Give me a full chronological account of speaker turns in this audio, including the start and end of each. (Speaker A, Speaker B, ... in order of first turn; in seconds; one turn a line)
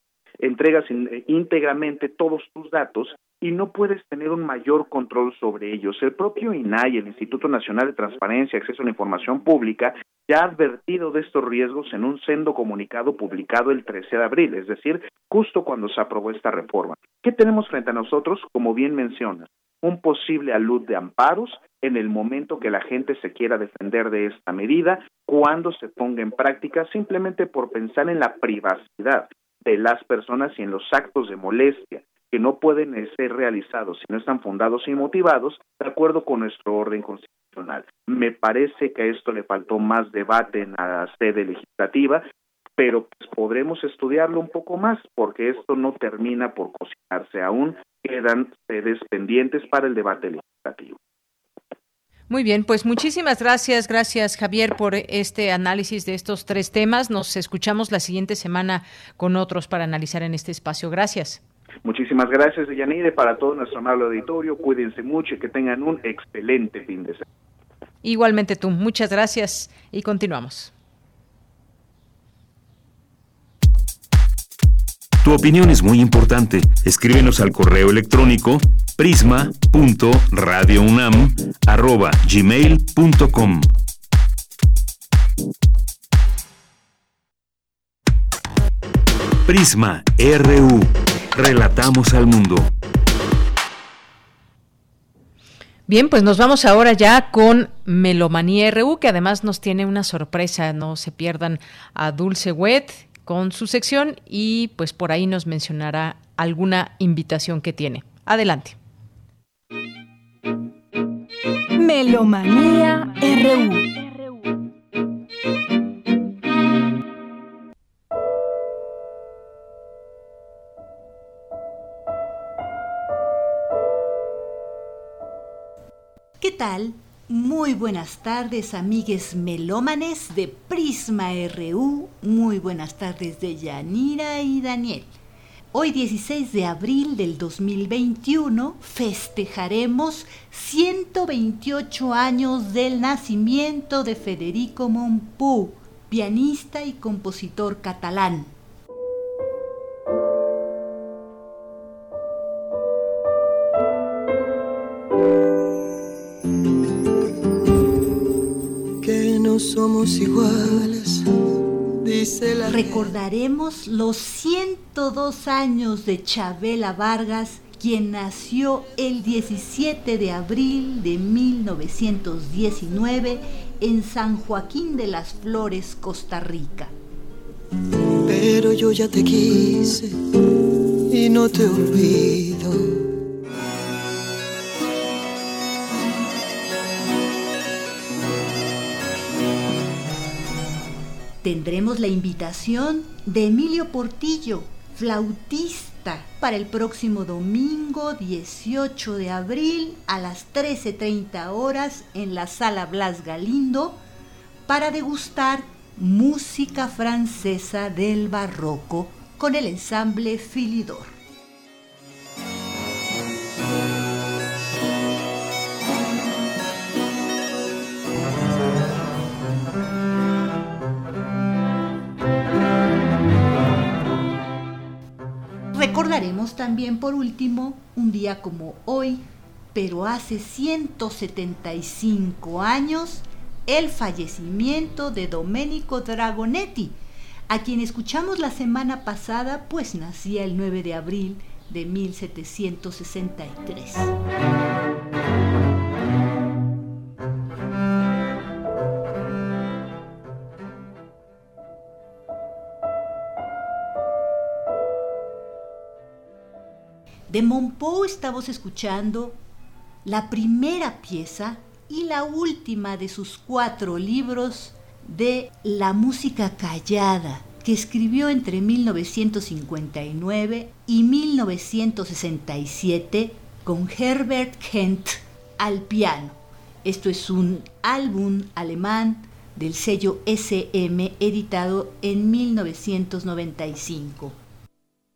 Speaker A: 0.4-42.2
Speaker A: 42.8-51.0
Speaker B: 52.3-61.4
Speaker A: 61.8-67.2
Speaker B: 68.0-70.7
Speaker C: 75.2-83.7
Speaker C: 89.5-92.7
Speaker B: 95.9-108.8
Speaker D: 111.8-113.9
Speaker E: 126.4-135.1
Speaker E: 135.7-148.5
Speaker F: 159.0-161.2
Speaker F: 162.0-163.1
Speaker E: 162.7-176.9
Speaker F: 178.2-180.2
Speaker F: 181.1-183.0
Speaker E: 191.4-204.0
Speaker E: 204.7-211.1
Speaker E: 225.7-229.2
Speaker E: 229.7-236.9
Speaker E: 237.5-244.1
Speaker E: 257.3-259.4
Speaker E: 260.0-284.4